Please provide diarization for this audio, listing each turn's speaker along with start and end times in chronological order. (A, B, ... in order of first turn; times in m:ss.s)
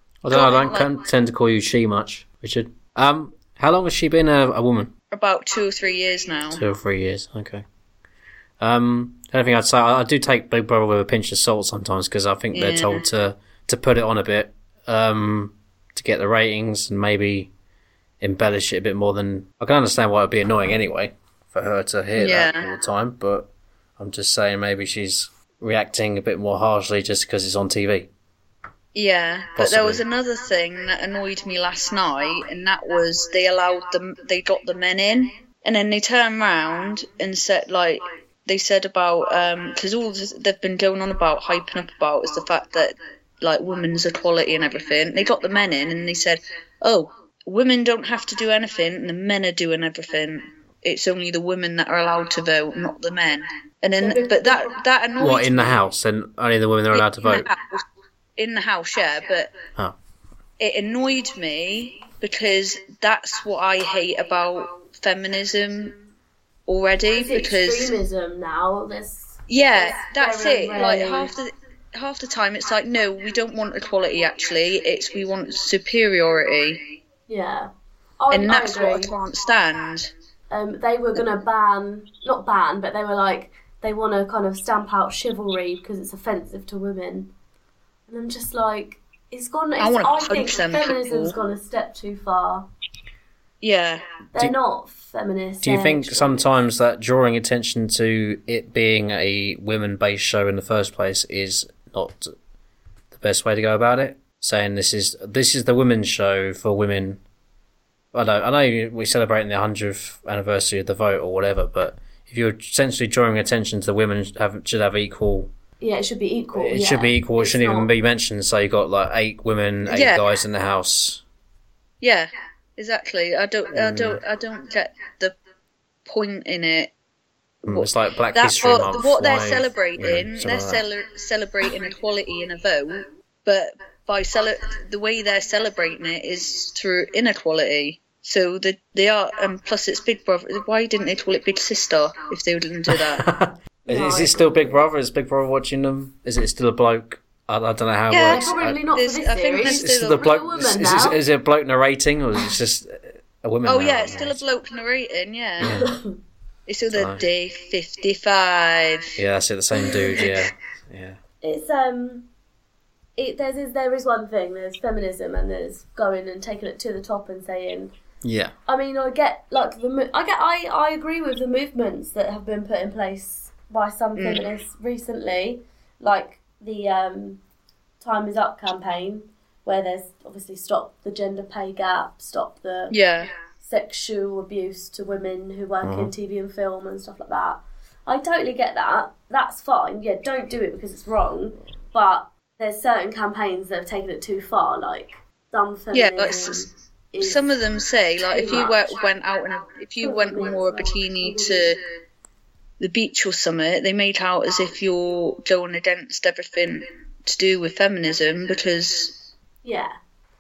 0:00.2-0:04.9 A
0:00.3-0:00.9 B
0:05.1-0:06.6 B
0:06.5-0:07.6 A
0:08.6-0:17.5 A
0:12.5-0:13.0 B
0:18.2-0:28.1 A
0:22.2-0:22.7 B
0:29.0-0:55.8 B
0:29.6-0:30.0 A
0:54.0-0:54.8 C
0:55.2-0:57.5 A
0:56.9-0:57.8 B
0:58.4-0:59.5 B
1:00.6-1:06.0 B
1:06.7-1:08.0 B
1:07.1-1:11.3 C
1:09.5-1:16.8 B
1:17.3-1:19.1 C
1:18.3-1:20.1 B
1:20.5-1:27.3 C
1:28.1-1:32.7 C
1:29.8-1:31.4 B
1:33.6-1:34.0 B
1:34.3-1:36.5 C
1:35.6-1:42.3 A
1:43.1-1:47.2 A
1:48.1-1:55.5 A
1:55.8-1:57.9 C
1:56.5-2:01.2 A
1:59.9-2:00.2 B
2:02.0-2:05.3 B
2:03.7-2:04.2 A
2:06.1-2:06.9 B
2:07.6-2:10.8 A
2:07.7-2:23.3 B
2:22.9-2:28.8 A
2:23.9-2:24.8 C
2:28.1-2:30.3 B
2:28.3-2:31.2 C
2:29.6-2:34.4 A
2:33.7-2:35.8 B
2:35.6-2:36.0 A
2:35.7-2:36.2 C
2:36.7-2:39.2 B
2:36.9-2:37.3 A
2:39.2-2:41.2 A
2:39.9-2:40.2 C
2:41.4-2:42.3 C
2:43.2-2:47.9 C
2:48.2-2:48.5 A
2:48.7-2:57.4 C
2:54.2-2:54.4 B
2:58.0-3:03.0 C
3:02.9-3:03.3 B
3:03.6-3:17.5 C
3:05.8-3:06.1 A
3:15.9-3:16.7 B
3:17.2-3:21.8 B
3:18.3-3:19.0 C
3:20.0-3:21.8 C
3:22.8-3:29.2 B
3:29.6-3:29.9 C